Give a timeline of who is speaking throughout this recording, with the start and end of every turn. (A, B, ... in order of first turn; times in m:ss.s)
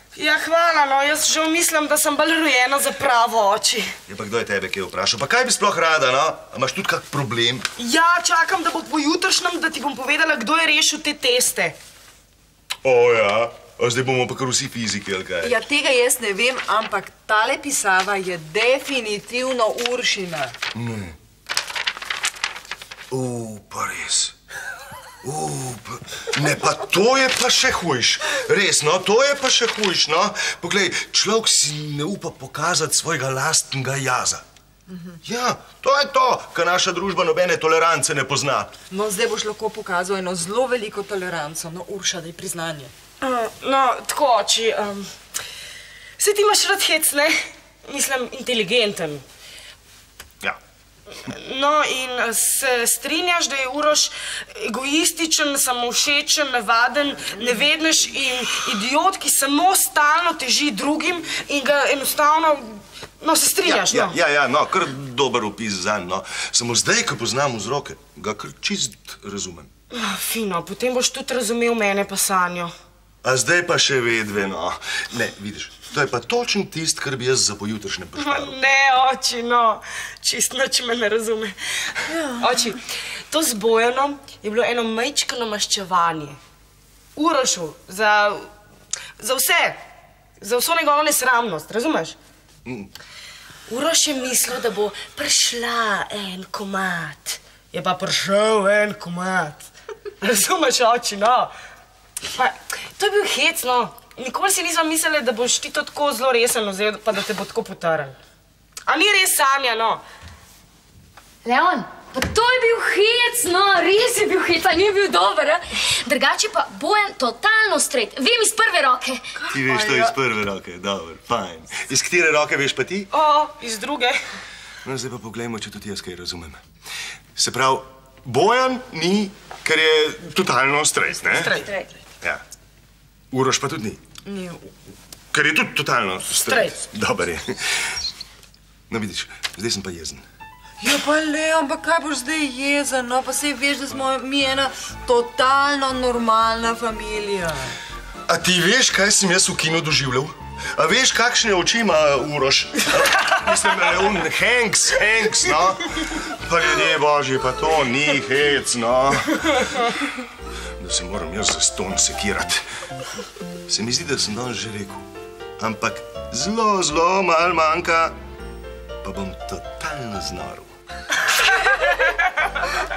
0:00.1-0:03.9 A
0:04.1-0:07.7 B
0:07.8-0:11.8 A
0:12.8-0:15.6 B
0:15.4-0:20.5 C
0:20.7-0:21.2 B
0:23.1-0:24.3 B
0:25.2-0:34.4 B
0:35.2-0:38.7 B
0:38.9-0:42.9 C
0:43.2-0:45.1 A
0:46.2-0:49.2 A
0:51.2-1:04.2 A
1:03.6-1:09.7 B
1:09.9-1:12.7 A
1:13.2-1:18.6 B
1:18.2-1:26.4 A
1:27.1-1:28.5 A
1:29.2-1:29.8 A
1:30.4-1:32.2 A
1:32.6-1:32.9 B
1:33.7-1:39.7 A
1:40.2-1:41.5 A
1:42.3-1:48.2 A
1:48.9-1:50.0 A
1:51.4-1:59.2 D
1:59.5-2:03.1 B
1:59.7-2:00.0 C
2:03.1-2:04.2 A
2:04.8-2:06.6 B
2:07.3-2:11.6 B
2:11.2-2:12.0 A
2:13.3-2:14.0 B
2:14.2-2:14.6 C
2:15.3-2:18.0 B
2:16.4-2:16.8 A
2:18.9-2:20.2 B
2:20.8-2:27.7 C
2:28.3-2:39.7 B
2:40.8-2:42.6 B
2:43.7-2:45.1 B
2:45.6-2:48.2 B
2:49.0-2:50.7 B